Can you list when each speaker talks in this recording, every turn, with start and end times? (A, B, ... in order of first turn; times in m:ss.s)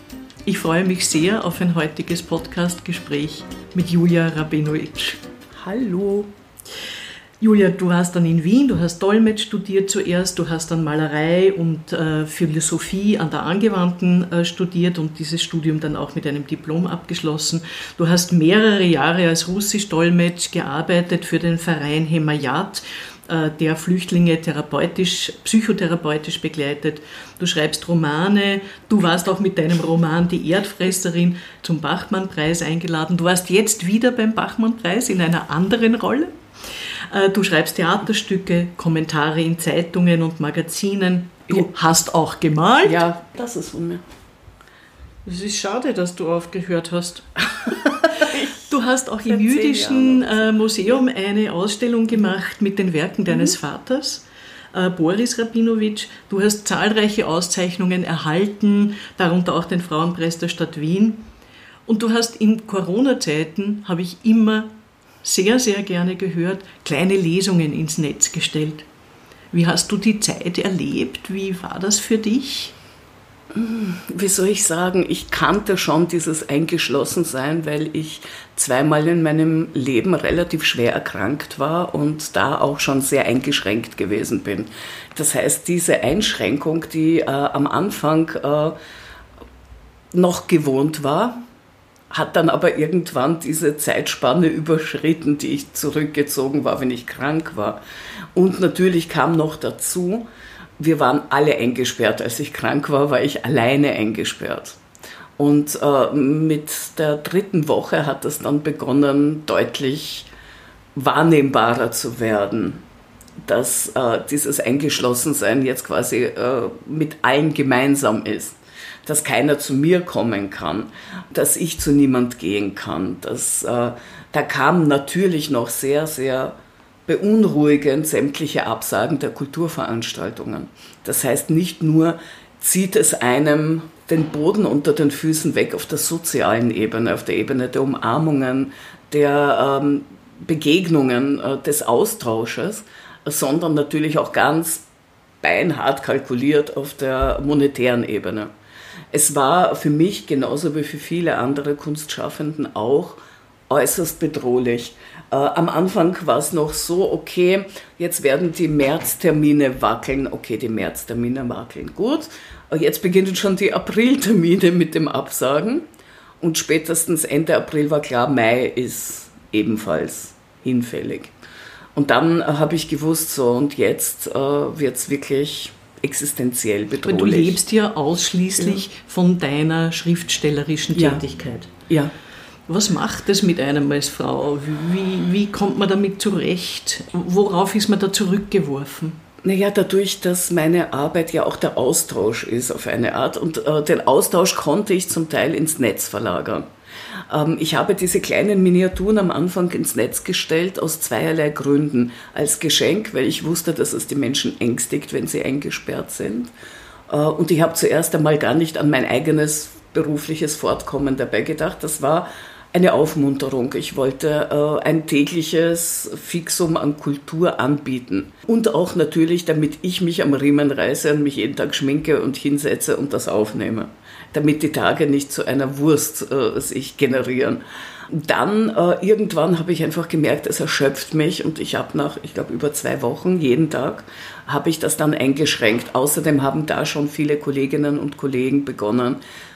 0:00.5-0:05.2 A
0:05.6-0:06.3 B
0:07.4-0:36.3 A
0:37.1-0:43.0 A
0:42.8-0:44.0 B
0:45.2-1:01.3 A
0:47.7-0:50.4 B
1:01.9-1:04.7 A
1:05.2-1:08.9 A
1:09.5-1:12.8 A
1:13.5-1:28.8 B
1:30.1-1:31.4 B
1:32.1-1:37.8 B
1:38.4-1:40.3 B
1:40.8-1:44.8 B
1:45.4-1:50.3 B
1:51.0-1:52.8 B
1:53.4-2:06.6 B
2:07.1-2:24.8 B
2:25.4-2:28.5 B
2:29.1-2:33.2 B
2:33.7-2:45.8 B
2:46.4-2:51.3 B
2:52.0-2:57.6 B
2:57.0-3:01.7 A
3:01.0-3:01.2 B
3:02.7-3:09.2 A
3:09.4-3:16.7 B
3:17.3-3:26.5 B
3:27.1-3:59.2 B